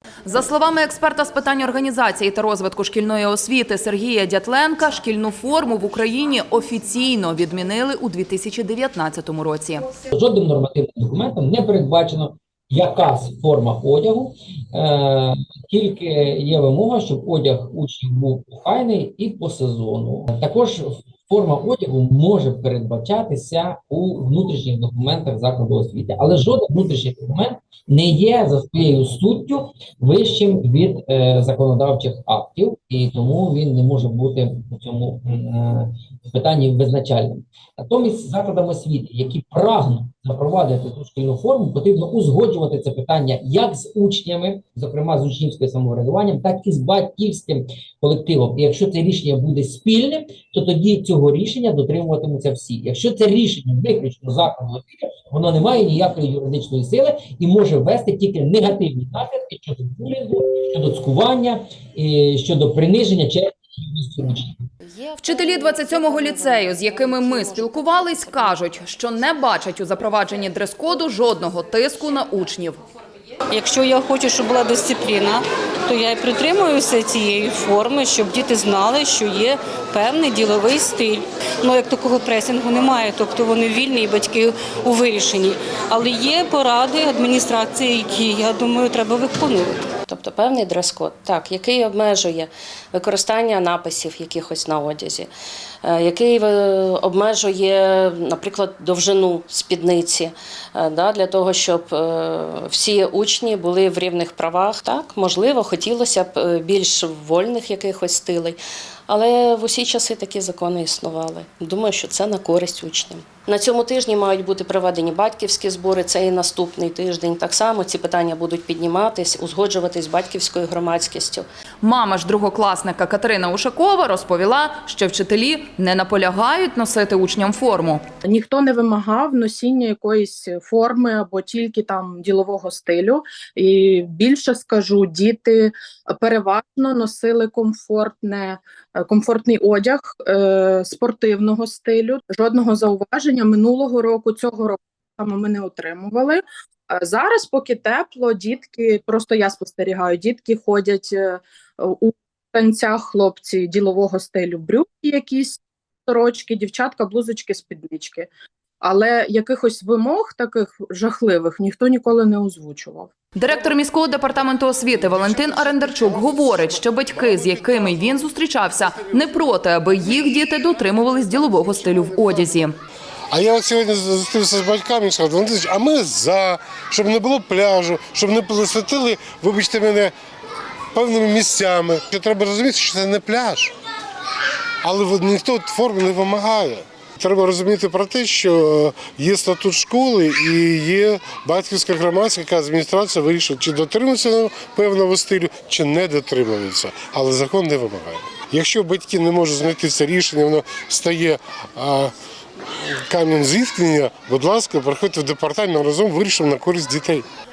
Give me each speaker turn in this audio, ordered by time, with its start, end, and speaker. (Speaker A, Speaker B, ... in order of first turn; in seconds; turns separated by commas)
Speaker A: 0.2-9.9, Speaker B: 10.1-64.6, Speaker C: 64.8-68.8, Speaker A: 65.2-72.8, Speaker D: 73.5-89.8, Speaker C: 90.1-95.3, Speaker C: 95.8-121.5, Speaker A: 121.8-128.0, Speaker E: 128.2-158.3, Speaker E: 158.8-163.1, Speaker A: 163.3-172.7, Speaker F: 165.2-167.9, Speaker F: 171.9-172.2, Speaker F: 173.3-180.1, Speaker F: 180.9-183.7, Speaker F: 184.8-202.1, Speaker F: 203.1-207.2